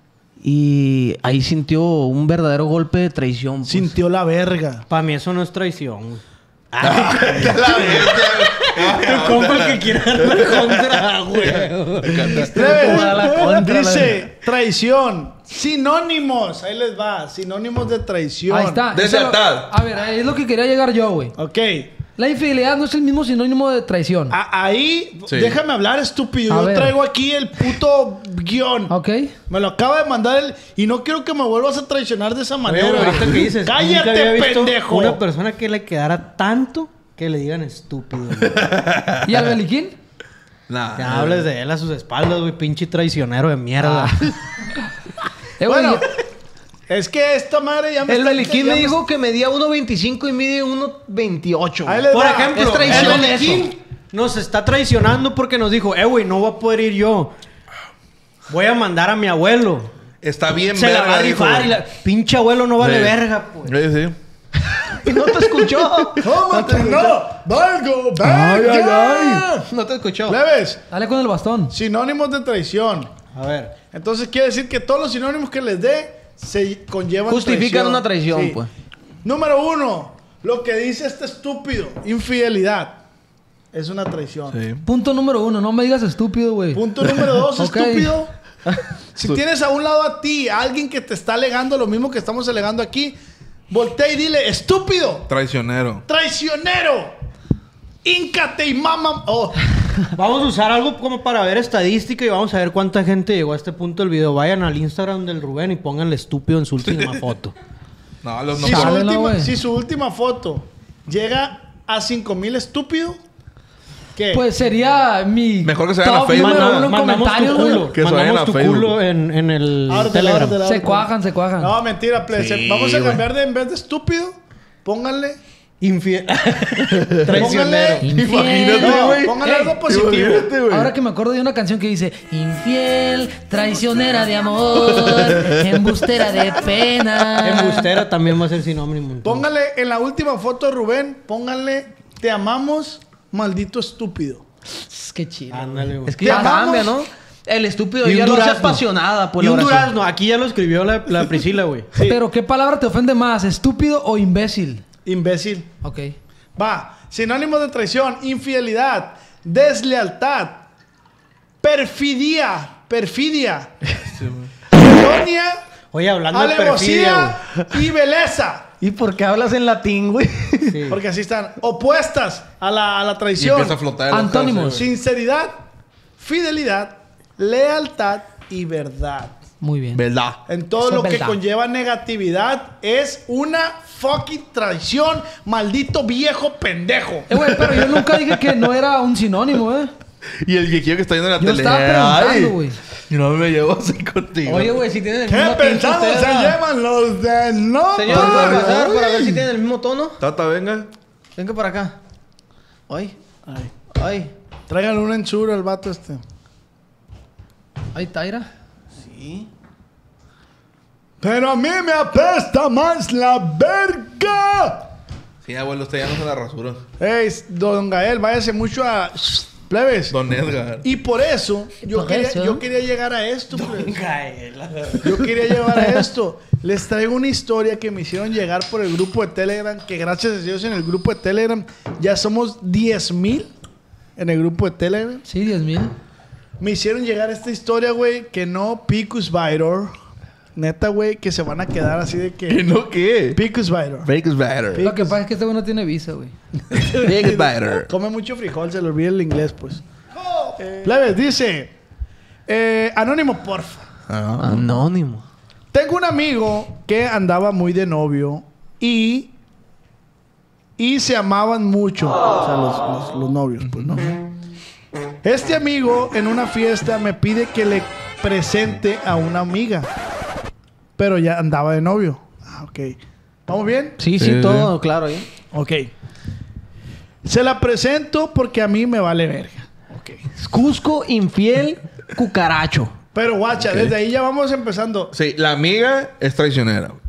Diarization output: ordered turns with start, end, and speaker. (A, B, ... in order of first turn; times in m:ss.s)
0:00.4-0:03.9 A
0:03.7-0:04.8 B
0:04.9-0:12.5 C
0:06.8-0:12.8 D
0:12.5-0:18.8 B
0:12.5-0:14.3 A
0:18.5-0:21.3 E
0:18.9-0:19.7 D
0:21.4-0:21.9 B
0:22.2-0:24.4 E
0:24.3-0:28.9 B
0:25.3-0:25.6 D
0:26.5-0:26.9 E
0:28.9-0:29.3 E
0:29.5-0:35.2 B
0:32.6-0:38.8 C
0:38.5-0:39.5 D
0:39.2-0:40.0 E
0:40.7-0:41.5 D
0:41.0-0:44.2 C
0:43.9-0:44.3 E
0:45.6-0:46.1 E
0:45.7-0:46.1 B
0:46.9-0:49.0 B
0:48.1-0:53.7 A
0:51.8-0:53.3 B
0:52.1-0:57.3 C
0:58.5-0:59.9 C
1:00.2-1:01.8 D
1:00.7-1:03.7 C
1:02.8-1:04.2 D
1:04.9-1:07.2 A
1:06.2-1:09.7 B
1:08.2-1:10.4 A
1:10.3-1:10.8 B
1:10.9-1:11.8 E
1:11.7-1:13.1 B
1:13.3-1:13.8 C
1:13.9-1:18.6 B
1:17.3-1:18.7 A
1:19.2-1:23.0 B
1:23.7-1:24.6 B
1:24.5-1:24.8 D
1:24.8-1:26.8 E
1:26.7-1:28.3 B
1:27.6-1:28.2 E
1:29.2-1:33.2 B
1:33.7-1:35.3 B
1:35.3-1:36.0 D
1:36.1-1:37.1 B
1:38.0-1:39.7 B
1:40.2-1:47.6 C
1:48.2-1:49.0 D
1:48.5-1:53.2 B
1:48.6-1:49.5 E
1:54.2-1:54.4 B
1:54.3-1:57.9 E
1:55.6-1:56.9 D
1:56.3-2:00.6 C
1:57.9-1:59.0 D
1:59.9-2:05.4 B
2:00.6-2:01.7 E
2:02.3-2:03.2 D
2:05.8-2:08.1 C
2:07.4-2:08.1 B
2:08.1-2:09.8 E
2:08.1-2:10.9 D
2:08.8-2:10.5 B
2:10.7-2:17.8 E
2:14.8-2:15.6 D
2:17.2-2:17.8 A
2:17.4-2:19.5 C
2:19.2-2:24.4 B
2:24.9-2:26.6 E
2:25.5-2:26.4 C
2:26.1-2:29.9 A
2:26.2-2:27.0 B
2:28.0-2:28.8 C
2:29.4-2:31.9 C
2:32.0-2:32.2 B
2:32.0-2:34.8 E
2:35.0-2:35.7 B
2:35.8-2:36.2 E
2:36.6-2:40.6 B
2:41.6-2:43.8 B
2:44.0-2:44.5 D
2:44.7-2:45.6 B
2:45.9-2:47.4 C
2:46.3-2:48.7 B
2:48.8-2:50.8 A
2:50.7-2:51.0 C
2:50.9-2:53.8 B
2:53.4-2:54.8 D
2:54.1-2:54.8 E
2:54.7-2:55.6 B
2:56.2-2:59.4 B
2:59.6-3:00.0 E
3:00.0-3:00.4 D
3:00.5-3:07.7 B
3:00.8-3:01.4 E
3:07.3-3:09.9 E
3:10.4-3:12.6 D
3:11.4-3:12.8 E
3:13.1-3:14.8 D
3:14.4-3:16.6 A
3:15.3-3:19.3 B
3:18.0-3:20.2 A
3:18.1-3:19.4 D
3:20.2-3:20.9 D
3:21.4-3:22.0 A
3:22.9-3:23.2 A
3:23.5-3:23.7 B
3:23.9-3:24.3 A
3:24.7-3:26.2 B
3:28.0-3:28.4 E
3:29.0-3:29.5 A
3:31.2-3:34.8 B
3:35.4-3:36.8 D
3:37.0-3:40.2 B
3:40.1-3:40.8 D
3:40.8-3:44.0 B
3:41.8-3:42.6 E
3:43.5-3:45.3 C
3:45.0-3:53.5 B
3:54.2-3:55.2 B
3:55.3-3:55.9 E
3:56.6-3:59.9 B
4:00.6-4:02.7 B
4:02.5-4:03.4 D
4:03.3-4:04.1 B
4:04.0-4:04.9 D
4:04.7-4:05.2 B
4:04.8-4:06.4 E
4:06.8-4:07.9 D
4:06.8-4:09.8 B
4:10.6-4:11.7 B
4:12.5-4:13.9 B
4:14.1-4:14.6 D
4:14.4-4:15.2 A
4:15.7-4:19.3 B
4:20.8-4:24.1 B
4:23.6-4:24.1 D
4:25.2-4:29.9 B
4:31.0-4:34.0 B
4:34.0-4:35.3 A
4:34.2-4:34.7 D
4:35.5-4:35.9 B
4:37.2-4:40.2 B
4:40.4-4:42.9 A
4:43.2-4:45.1 B
4:43.6-4:44.0 D
4:45.1-4:47.0 D